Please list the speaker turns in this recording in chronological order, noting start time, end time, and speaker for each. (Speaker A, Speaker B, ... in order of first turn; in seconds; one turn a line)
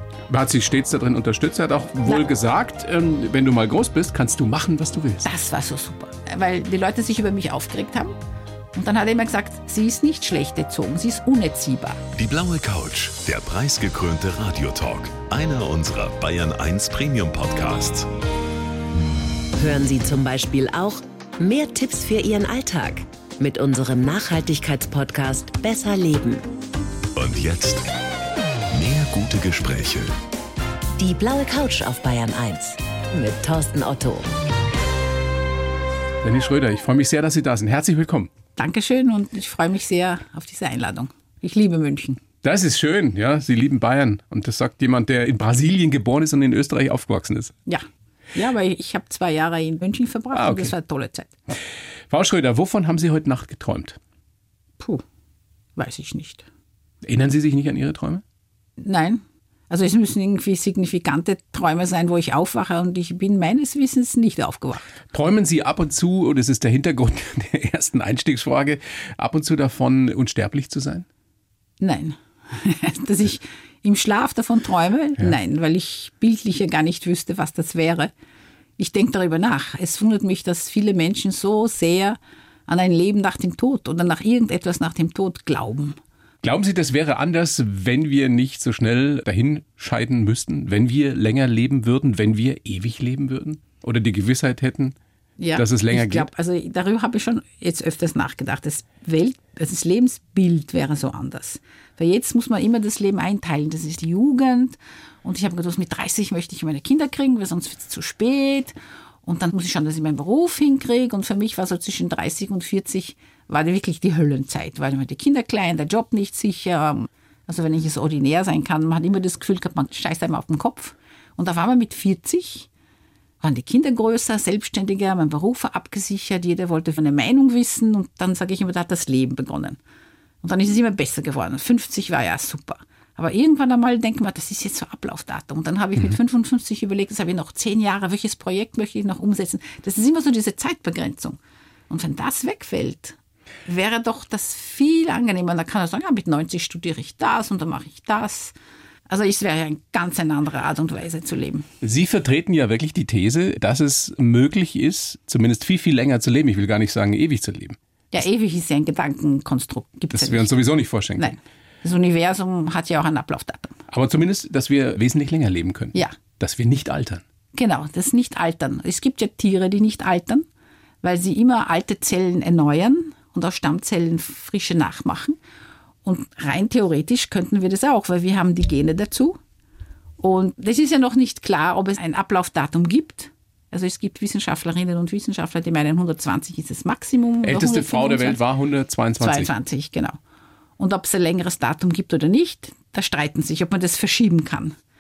Speaker A: 0.3-5.3
Speaker B: 5.2-8.2
Speaker B: 8.8-12.0
Speaker C: 12.2-18.1
Speaker D: 19.6-26.4
Speaker C: 27.1-27.9
Speaker C: 28.7-30.1
Speaker D: 31.0-34.3
Speaker A: 36.2-38.3
Speaker B: 38.6-42.2
Speaker A: 42.4-47.5
Speaker B: 47.7-51.3
Speaker A: 50.3-50.7
Speaker A: 52.1-54.0
Speaker B: 55.8-56.5
Speaker A: 57.0-58.2
Speaker B: 58.8-64.9
Speaker A: 65.1-71.1
Speaker B: 71.8-78.1
Speaker B: 78.8-86.0
Speaker A: 86.4-95.0
Speaker B: 95.4-122.7
Speaker A: 95.6-96.3
Speaker B: 123.4-129.8
Speaker B: 130.4-141.4
Speaker B: 141.9-148.6
Speaker B: 149.1-151.7
Speaker A: 151.8-157.8
Speaker B: 158.1-160.5
Speaker A: 160.1-161.3
Speaker B: 161.2-163.8
Speaker A: 163.9-167.2
Speaker B: 167.5-170.5
Speaker B: 171.0-175.4
Speaker B: 176.1-179.4
Speaker B: 180.2-188.4
Speaker A: 187.4-189.5
Speaker B: 189.2-190.2
Speaker B: 190.8-194.8